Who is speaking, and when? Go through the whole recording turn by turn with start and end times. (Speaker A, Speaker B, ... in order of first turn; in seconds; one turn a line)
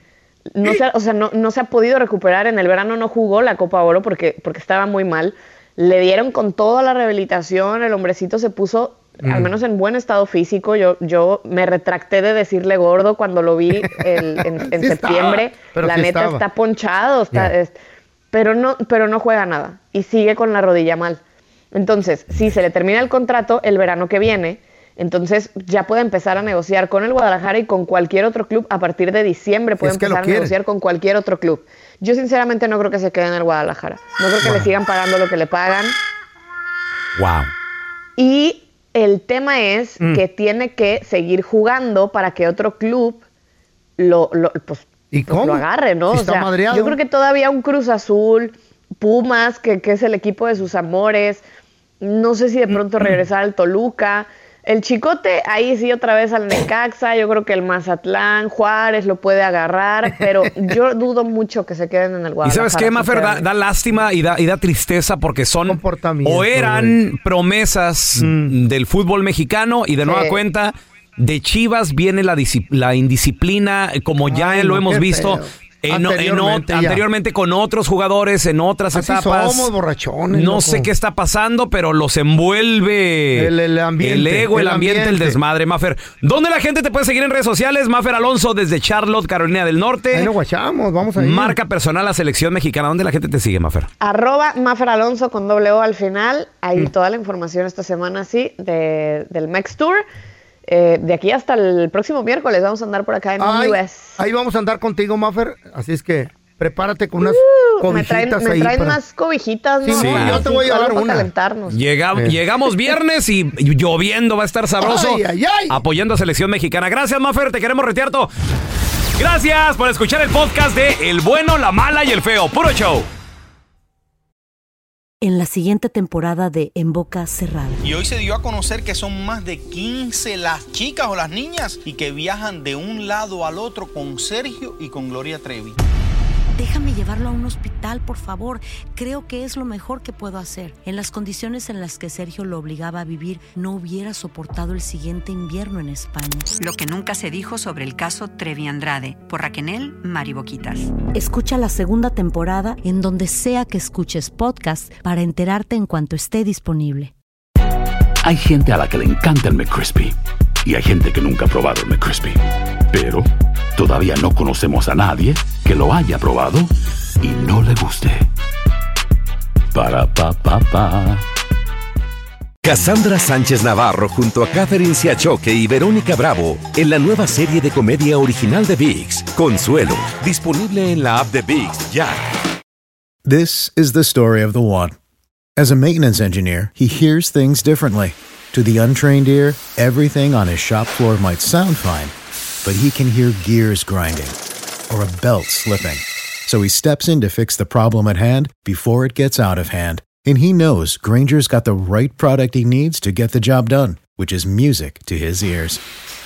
Speaker A: 0.5-17.7
Speaker B: 9.2-9.5
Speaker B: 14.6-16.4
Speaker A: 18.3-21.2
Speaker A: 21.7-36.0
Speaker B: 29.8-30.5
Speaker B: 34.4-34.7
Speaker C: 37.2-37.5
Speaker A: 38.2-43.2
Speaker A: 44.0-51.4
Speaker B: 45.1-47.0
Speaker A: 52.0-63.5
Speaker C: 62.4-79.7
Speaker B: 65.7-67.0
Speaker B: 68.2-68.5
Speaker A: 70.0-70.4
Speaker B: 74.3-77.0
Speaker B: 78.9-80.9
Speaker C: 80.3-90.3
Speaker B: 83.3-85.4
Speaker B: 90.1-91.6
Speaker C: 91.2-93.9
Speaker A: 94.0-100.0
Speaker A: 100.7-104.2
Speaker B: 103.4-109.0
Speaker A: 107.2-111.8
Speaker B: 109.8-111.3
Speaker C: 109.9-110.4
Speaker C: 111.7-118.3
Speaker B: 114.8-115.8
Speaker C: 119.2-123.1
Speaker D: 125.2-127.8
Speaker E: 127.8-135.8
Speaker D: 136.6-146.5
Speaker F: 146.6-151.0
Speaker D: 151.1-157.1
Speaker G: 158.2-168.3
Speaker G: 169.7-171.3
Speaker H: 172.6-182.2
Speaker I: 183.2-184.9
Speaker I: 185.6-194.4
Speaker I: 194.9-205.8